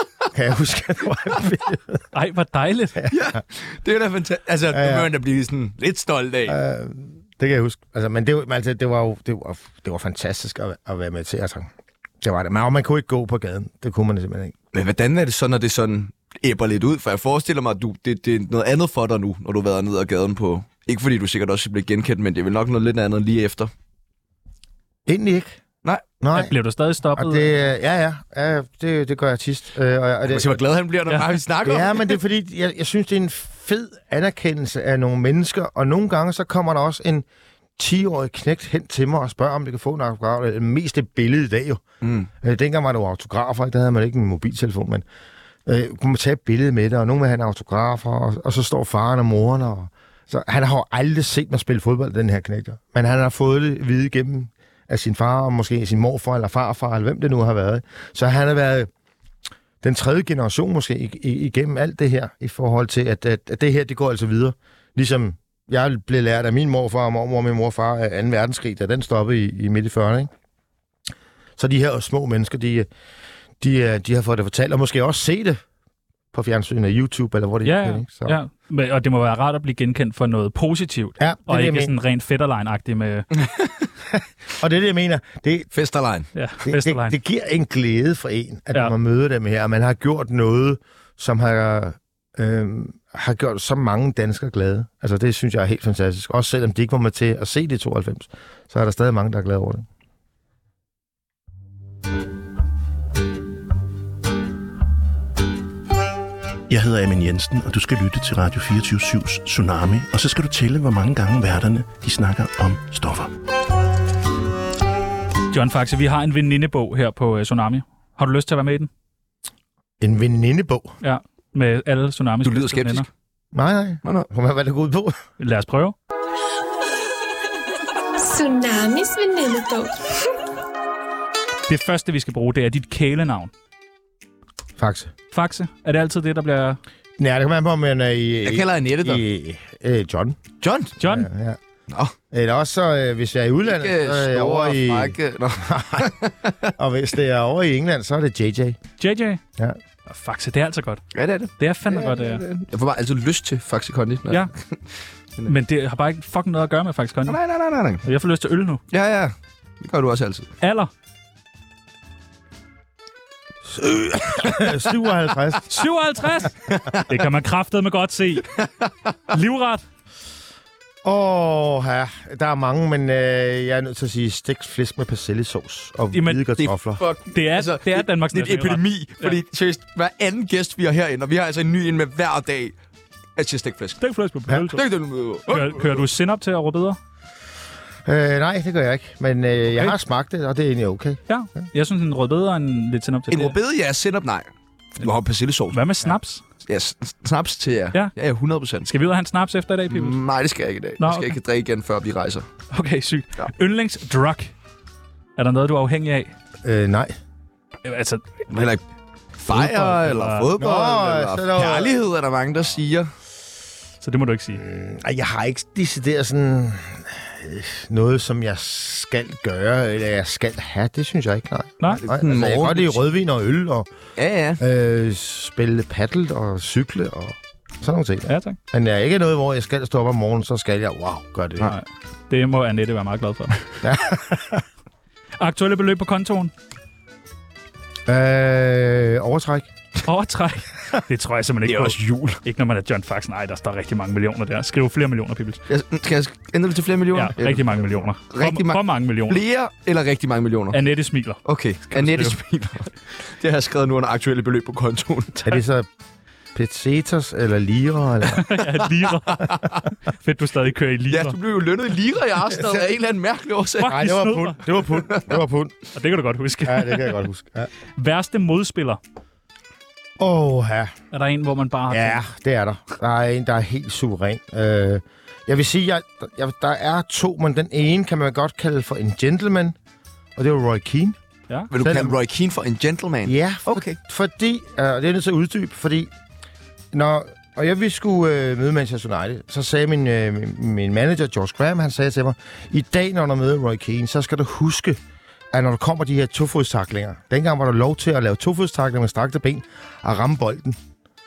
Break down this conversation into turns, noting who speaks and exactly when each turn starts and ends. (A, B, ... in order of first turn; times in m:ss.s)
0:00.3-0:02.0 A
0:02.1-0:03.0 B
0:03.0-0:03.4 A
0:03.1-0:06.6 C
0:04.7-0:05.1 A
0:06.4-0:11.7 A
0:12.2-0:14.6 A
0:14.7-0:23.7 C
0:25.1-0:25.6 A
0:26.2-0:26.5 A
0:26.3-0:27.5 B
0:27.1-0:30.6 A
0:30.3-0:32.2 C
0:31.6-0:37.2 A
0:37.8-0:41.8 A
0:42.0-0:42.3 C
0:42.4-0:45.0 A
0:45.6-0:58.9 A
0:59.8-1:10.3 A
1:11.6-1:12.9 A
1:13.6-1:15.6 A
1:16.3-1:18.4 A
1:17.6-1:23.3 B
1:21.2-1:21.9 A
1:23.4-1:23.7 C
1:24.6-1:25.7 A
1:25.7-1:26.3 C
1:26.3-1:27.1 B
1:26.6-1:39.8 A
1:46.7-1:53.3 D
1:55.5-1:58.9 B
2:00.0-2:00.9 A
2:01.0-2:03.1 B
2:02.4-2:03.1 C
2:03.5-2:05.2 A
2:05.4-2:05.9 B
2:08.2-2:10.1 E
2:11.7-2:13.5 B
2:14.8-2:15.1 A
2:15.3-2:16.8 B
2:17.2-2:20.4 A
2:18.4-2:19.2 C
2:20.6-2:21.0 C
2:21.0-2:21.3 B
2:21.0-2:21.6 A
2:21.9-2:22.1 C
2:22.3-2:28.8 A
2:23.6-2:26.7 C
2:29.0-2:29.4 B
2:30.1-2:31.0 B
2:31.1-2:34.8 C
2:31.6-2:32.4 B
2:35.4-2:37.4 B
2:37.3-2:38.0 C
2:38.0-2:38.8 B
2:38.9-2:40.5 C
2:40.6-2:40.9 B
2:43.6-2:45.8 A
2:45.7-2:48.5 B
2:46.7-2:47.0 C
2:48.6-2:48.9 C
2:49.3-2:49.8 B
2:51.0-2:57.0 A
2:56.1-2:56.4 B
2:56.6-3:02.7 C
2:57.3-2:59.3 B
3:03.4-3:04.0 C
3:04.0-3:04.8 B
3:04.5-3:06.0 C
3:05.5-3:07.0 B
3:08.0-3:11.2 A
3:11.3-3:13.6 B
3:13.3-3:16.1 C
3:15.7-3:16.4 B
3:16.6-3:18.9 C
3:18.9-3:20.2 B
3:19.9-3:22.5 C
3:21.0-3:21.3 B
3:22.7-3:24.5 B
3:25.4-3:26.3 B
3:26.6-3:27.2 A
3:27.8-3:28.7 B
3:28.5-3:28.8 C
3:29.4-3:33.1 C
3:29.5-3:30.5 B
3:30.6-3:31.9 A
3:34.0-3:34.6 B
3:34.5-3:43.9 A
3:42.0-3:43.0 C
3:44.2-3:44.6 C
3:44.6-3:51.7 A
3:48.3-3:48.6 B
3:51.6-3:53.6 B
3:53.8-3:54.6 A
3:55.4-3:56.5 B
3:58.1-3:59.7 A
4:00.0-4:05.6 B
4:01.6-4:02.4 C
4:05.7-4:10.8 C
4:07.1-4:09.4 B
4:10.7-4:12.4 B
4:11.4-4:15.4 C
4:15.4-4:15.9 A
4:16.5-4:18.4 A
4:18.3-4:19.5 B
4:19.4-4:19.8 C
4:20.1-4:21.4 B
4:21.1-4:24.0 C
4:23.8-4:24.6 B
4:23.8-4:25.8 A
4:25.9-4:27.2 B
4:26.6-4:27.7 A
4:28.0-4:29.0 B
4:30.2-4:30.9 A
4:31.1-4:32.2 B
4:31.9-4:39.8 A
4:40.4-4:41.2 A
4:41.7-4:44.0 C
4:41.8-4:42.2 A
4:43.2-4:46.1 A
4:46.9-4:55.0 A
4:55.5-5:00.8 A